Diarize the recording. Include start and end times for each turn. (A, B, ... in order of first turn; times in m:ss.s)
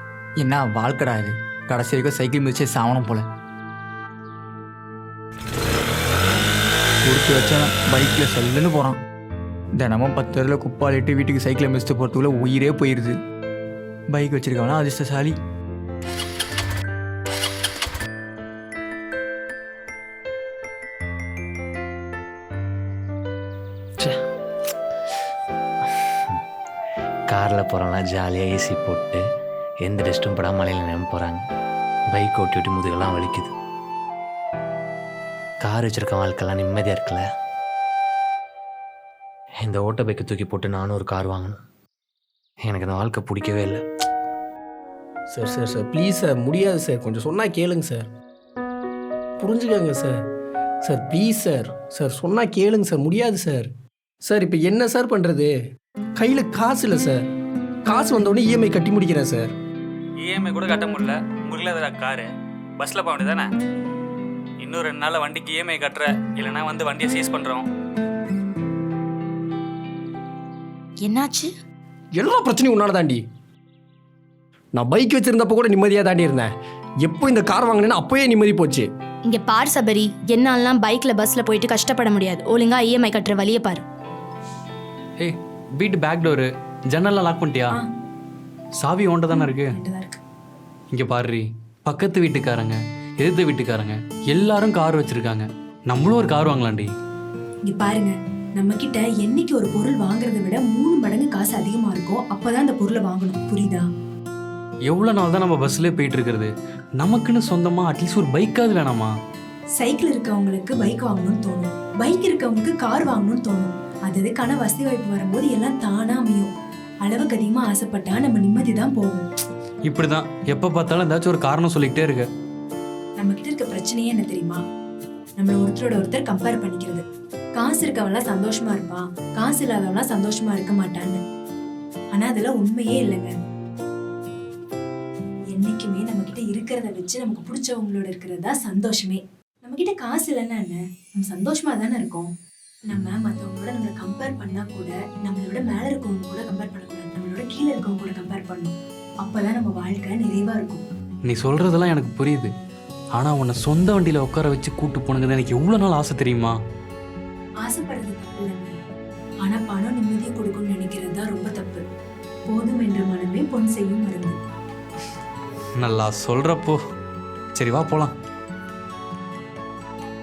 0:00.4-0:03.3 A
0:07.0-0:09.0 A
0:09.8-0:13.2 A
0:14.1-0:15.4 A
0:27.3-0:29.2 B
0:29.8-0:31.4 B
0:32.1-0:33.5 B
0:35.6-0:37.2 B
0:39.6-0:41.6 B
0:42.6-0:43.8 B
0:45.3-0:48.1 C
0:49.4-0:50.2 C
0:50.8-0:53.7 C
0:54.2-0:55.5 C
0:56.2-0:57.2 C
0:57.9-0:59.5 C
1:00.2-1:02.3 D
1:02.8-1:03.5 D
1:04.6-1:07.6 D
1:11.0-1:11.5 E
1:12.2-1:13.2 C
1:14.8-1:16.5 C
1:17.0-1:18.9 C
1:19.3-1:23.8 E
1:25.2-1:27.7 F
1:28.8-1:29.8 F
1:29.3-1:30.2 G
1:30.9-1:36.9 F
1:37.6-1:43.9 G
1:44.9-1:49.1 F
1:49.8-1:56.5 G
1:57.0-1:59.3 G
1:59.9-2:02.3 F
2:03.2-2:04.6 G
2:05.4-2:07.0 G
2:07.6-2:11.2 G
2:12.1-2:13.3 G
2:15.5-2:22.3 G
2:22.9-2:30.8 G
2:31.3-2:32.5 F
2:33.2-2:36.6 F
2:37.6-2:38.8 G
2:39.4-2:41.8 G
2:42.5-2:44.4 G
2:45.8-2:46.8 F
2:47.6-2:48.1 F